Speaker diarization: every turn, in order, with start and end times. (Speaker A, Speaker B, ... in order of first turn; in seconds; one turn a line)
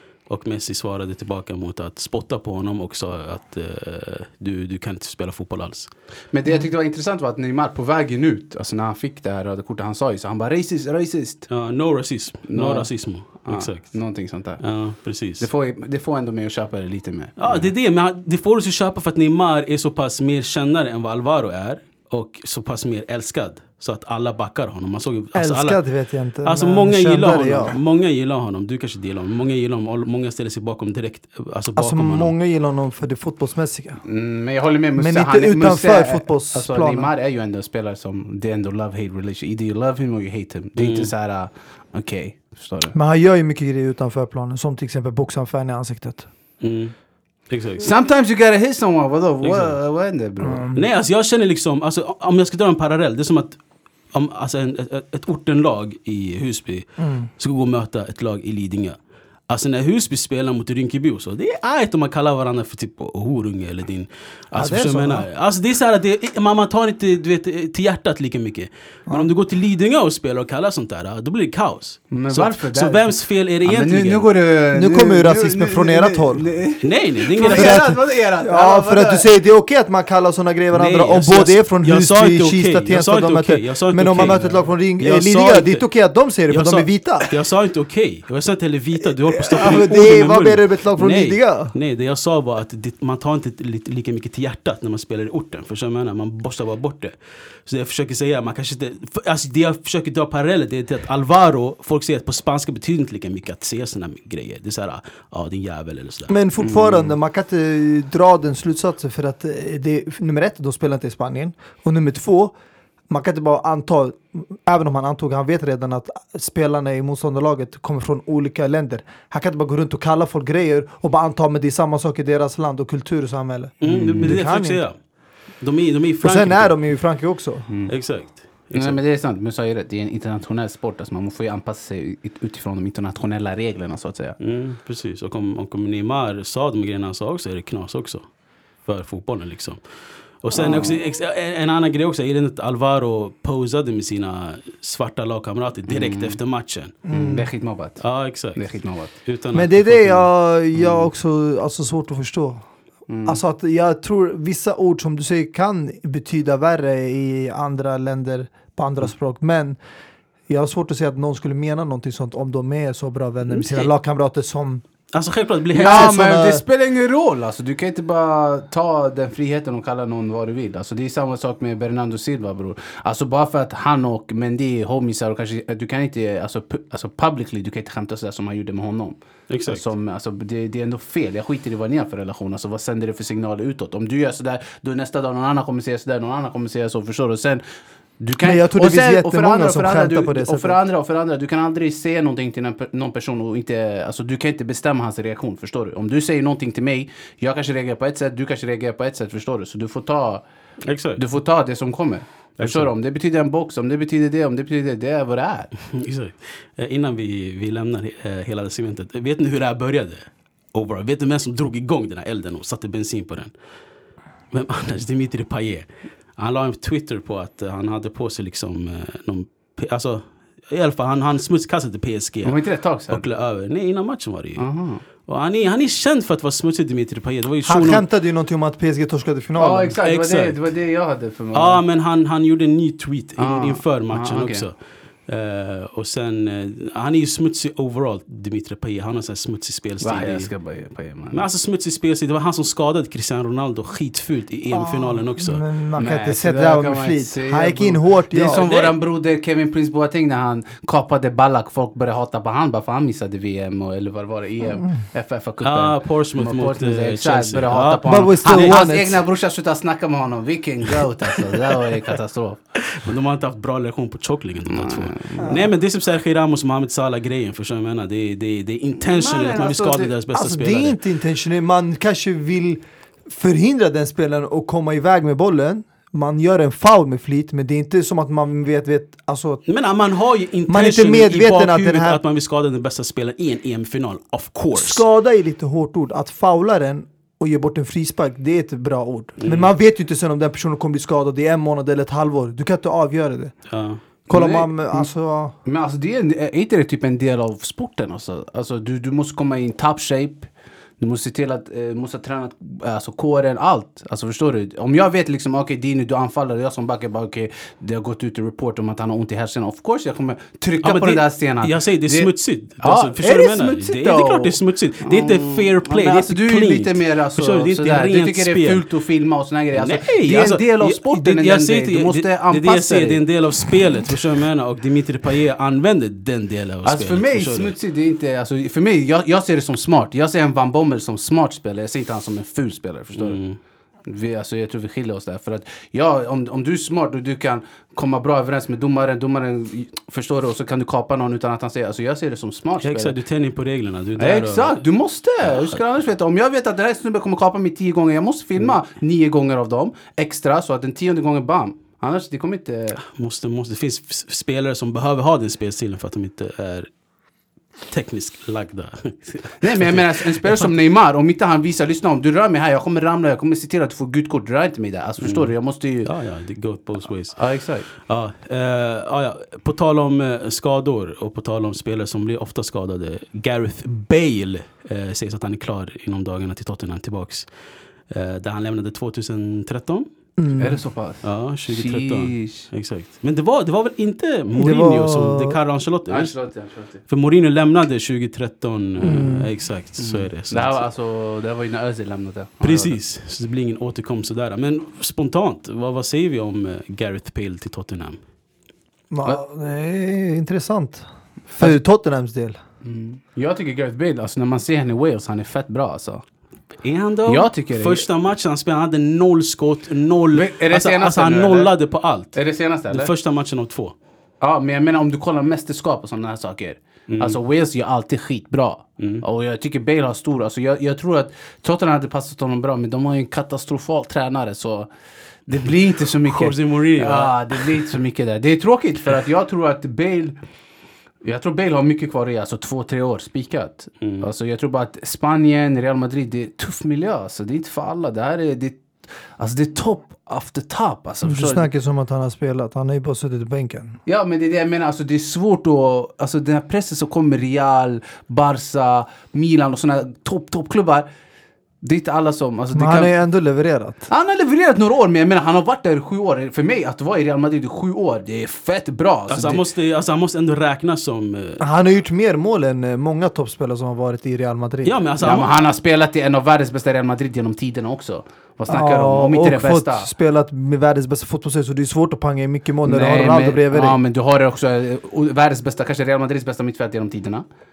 Speaker A: 0.3-5.9
Speaker B: 6.3-11.5
Speaker A: 11.5-14.0
Speaker B: 12.5-14.6
Speaker A: 14.6-15.5
Speaker B: 15.4-17.7
Speaker A: 17.4-25.8
Speaker C: 25.3-27.8
Speaker A: 26.4-32.3
Speaker C: 31.8-34.0
Speaker B: 34.0-43.0
Speaker C: 35.0-37.1
Speaker A: 40.8-41.1
Speaker C: 42.9-46.3
Speaker A: 46.6-46.9
Speaker A: 47.5-47.9
Speaker B: 47.8-50.6
Speaker A: 49.4-49.8
Speaker C: 50.4-50.9
Speaker A: 50.7-53.5
Speaker A: 54.1-56.9
Speaker C: 57.0-57.3
Speaker A: 57.4-59.0
Speaker A: 59.5-74.3
Speaker C: 64.5-65.3
Speaker B: 72.1-73.0
Speaker B: 73.6-79.2
Speaker C: 74.7-76.5
Speaker A: 76.8-77.9
Speaker C: 77.5-87.3
Speaker A: 80.7-85.9
Speaker A: 86.5-97.1
Speaker C: 89.3-91.7
Speaker A: 97.7-106.3
Speaker C: 106.3-112.5
Speaker B: 106.6-107.1
Speaker C: 113.1-124.8
Speaker A: 123.8-125.0
Speaker B: 123.8-124.4
Speaker A: 125.6-126.7
Speaker C: 126.2-127.7
Speaker A: 127.9-129.0
Speaker B: 128.7-134.4
Speaker A: 134.4-138.2
Speaker A: 138.8-139.8
Speaker A: 140.4-147.0
Speaker C: 140.5-140.9
Speaker B: 140.7-140.9
Speaker B: 145.9-146.4
Speaker C: 147.1-147.5
Speaker B: 147.1-148.0
Speaker A: 148.0-150.2
Speaker B: 148.5-149.1
Speaker C: 149.5-152.6
Speaker B: 150.8-151.0
Speaker B: 153.1-153.4
Speaker C: 153.2-159.8
Speaker C: 160.5-164.8
Speaker A: 163.6-163.9
Speaker A: 165.1-166.2
Speaker B: 165.7-187.6
Speaker C: 165.8-166.6
Speaker A: 179.5-179.8
Speaker B: 188.2-200.4
Speaker C: 188.4-190.8
Speaker A: 200.8-201.2
Speaker B: 201.2-205.7
Speaker A: 202.6-202.9
Speaker A: 205.9-213.5
Speaker A: 214.5-215.8
Speaker A: 216.4-224.6
Speaker B: 222.4-223.2
Speaker B: 224.6-225.0
Speaker A: 225.2-228.0
Speaker C: 227.6-230.0
Speaker B: 229.6-231.8
Speaker A: 230.0-230.6
Speaker A: 231.5-234.7
Speaker B: 233.4-234.7
Speaker A: 235.3-240.5
Speaker B: 240.0-241.4
Speaker A: 241.3-245.6
Speaker C: 244.7-248.7
Speaker B: 246.0-262.6
Speaker A: 248.4-249.0
Speaker A: 255.6-258.8
Speaker C: 258.0-259.2
Speaker A: 262.9-271.0
Speaker B: 264.7-265.6
Speaker C: 265.4-265.7
Speaker B: 269.0-270.1
Speaker C: 270.3-279.6
Speaker A: 279.7-285.0
Speaker C: 280.7-282.2
Speaker C: 284.7-293.5
Speaker A: 289.4-289.7
Speaker A: 293.7-294.0
Speaker C: 294.3-295.5
Speaker B: 294.3-295.1
Speaker B: 295.6-323.7
Speaker A: 310.8-318.8
Speaker A: 319.7-327.8
Speaker B: 326.8-333.4
Speaker A: 333.2-333.6
Speaker B: 334.1-343.1
Speaker A: 342.8-344.8
Speaker B: 344.2-353.0
Speaker A: 353.0-356.9
Speaker A: 357.9-360.7
Speaker B: 359.6-366.1
Speaker A: 365.2-365.5
Speaker A: 366.0-377.5
Speaker B: 367.4-367.9
Speaker A: 378.1-380.1
Speaker C: 380.4-380.8
Speaker B: 380.6-382.7
Speaker A: 381.2-386.3
Speaker C: 384.5-385.6
Speaker B: 386.1-387.0
Speaker A: 387.1-390.8
Speaker C: 389.0-389.5
Speaker B: 390.0-393.0
Speaker A: 392.6-398.2
Speaker C: 399.1-402.6
Speaker B: 402.8-406.2
Speaker A: 406.8-412.4
Speaker B: 407.3-408.1
Speaker B: 410.3-411.7
Speaker B: 412.3-413.1
Speaker A: 412.9-413.9
Speaker B: 414.4-424.9
Speaker A: 417.1-417.4
Speaker B: 425.5-430.4
Speaker A: 426.2-427.8
Speaker B: 431.2-438.9
Speaker A: 434.0-434.2
Speaker B: 439.4-441.7
Speaker C: 441.2-444.0
Speaker B: 444.1-451.1
Speaker B: 451.8-453.1
Speaker C: 452.7-454.1
Speaker B: 454.1-459.6
Speaker A: 459.3-461.6
Speaker C: 461.6-465.0
Speaker A: 464.8-465.6
Speaker B: 465.2-470.1
Speaker C: 468.7-474.0
Speaker B: 472.9-477.4